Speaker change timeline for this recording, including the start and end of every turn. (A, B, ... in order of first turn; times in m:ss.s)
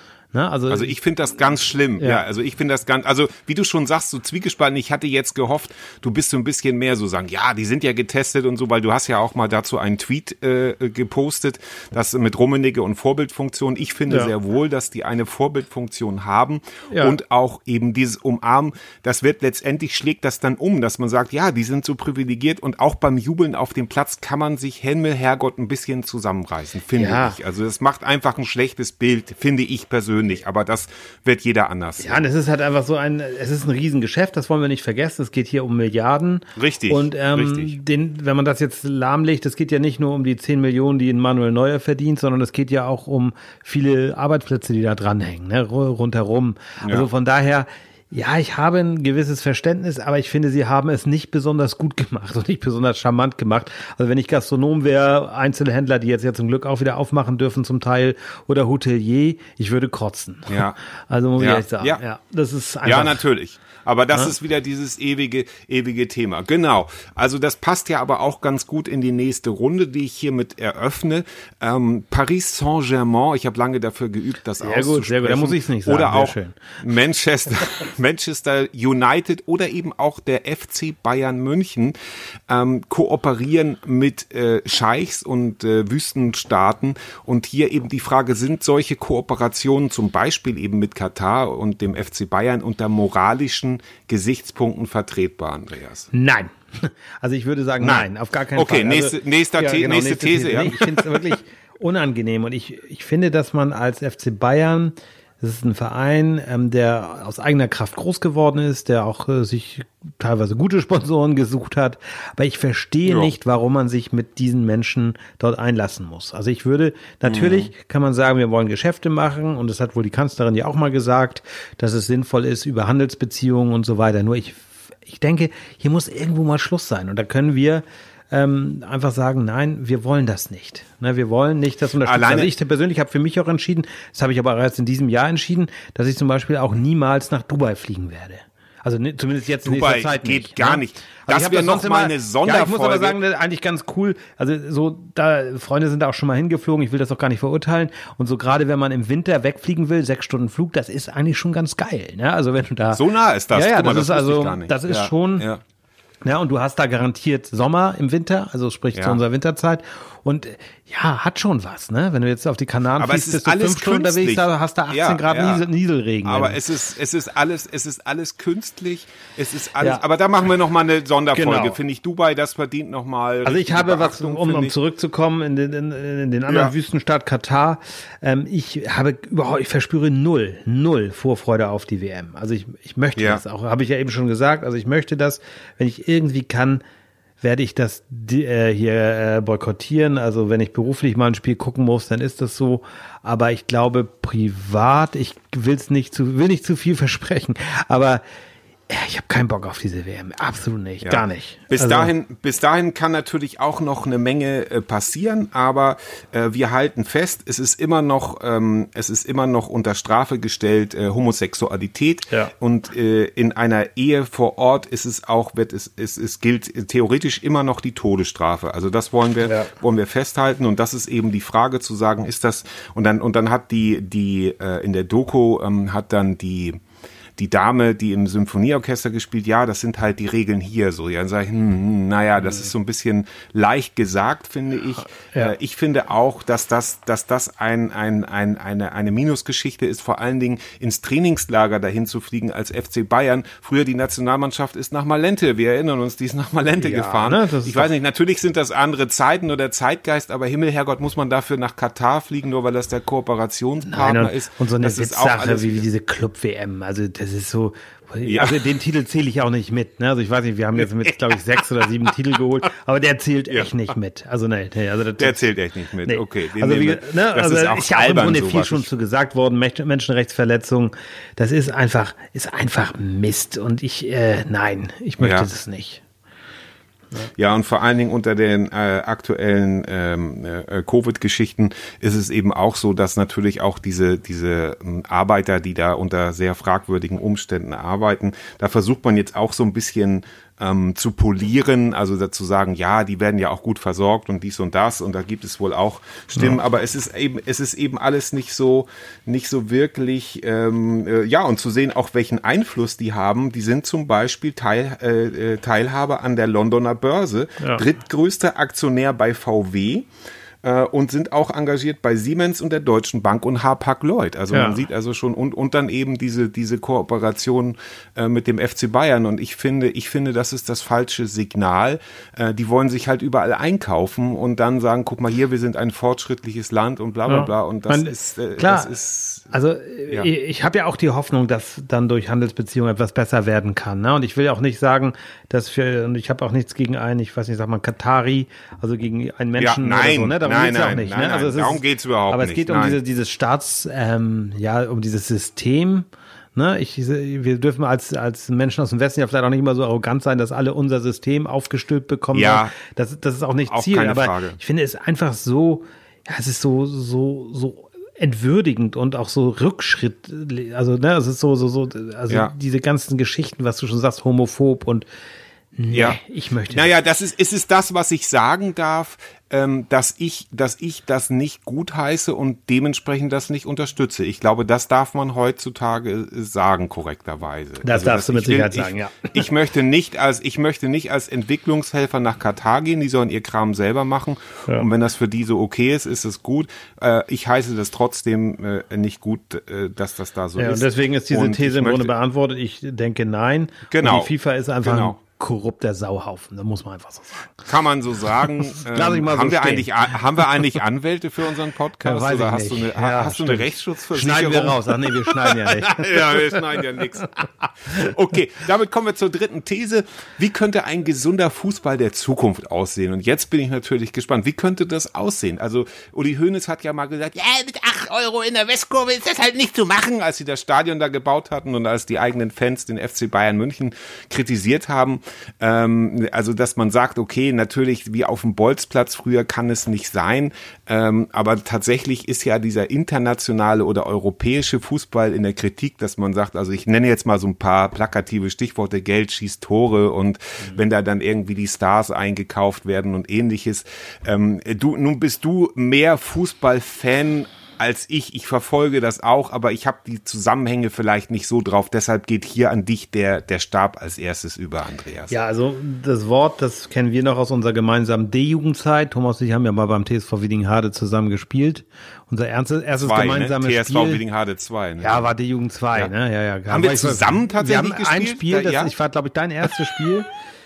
0:00.3-0:01.0 A
0:00.7-0:32.2 B
0:26.9-0:27.4 A
0:32.0-1:03.2 A
0:36.6-0:37.8 B
0:46.8-0:47.1 B
1:00.5-1:00.8 B
1:01.4-1:02.0 B
1:02.8-1:22.0 B
1:14.6-1:16.8 A
1:22.5-1:36.1 B
1:36.1-2:35.5 A
1:37.8-1:41.4 B
1:53.1-1:53.3 B
1:57.2-1:57.7 B
2:12.0-2:12.5 B
2:19.6-2:23.2 B
2:32.9-2:35.6 B
2:36.2-2:46.6 A
2:39.0-2:39.2 B
2:43.0-2:45.7 B
2:46.2-2:54.8 B
2:51.3-2:51.8 A
2:53.4-3:06.8 A
2:56.5-2:56.7 B
3:03.2-3:03.4 B
3:07.4-3:18.2 A
3:18.9-3:22.1 A
3:21.0-3:46.8 B
3:39.4-3:39.7 A
3:47.4-4:15.8 B
4:06.8-4:07.9 A
4:13.9-4:25.4 A
4:18.2-4:18.7 B
4:25.2-4:28.9 B
4:26.0-4:36.0 A
4:35.2-4:35.5 B
4:37.4-5:10.1 B
5:10.6-5:29.4 B
5:14.5-5:14.8 A
5:27.3-6:05.1 A
5:39.6-5:43.0 B
5:52.3-5:52.7 B
5:53.7-5:54.6 B
6:05.8-6:06.9 A
6:05.9-6:06.2 B
6:06.7-6:32.1 B
6:17.8-6:19.4 A
6:30.6-6:37.6 A
6:33.9-6:34.3 B
6:34.8-6:35.2 B
6:37.7-7:35.3 B
6:38.5-6:40.6 A
6:42.0-6:46.8 A
7:35.3-7:44.2 A
7:43.0-7:45.3 B
7:45.0-7:50.3 A
7:46.7-7:48.9 B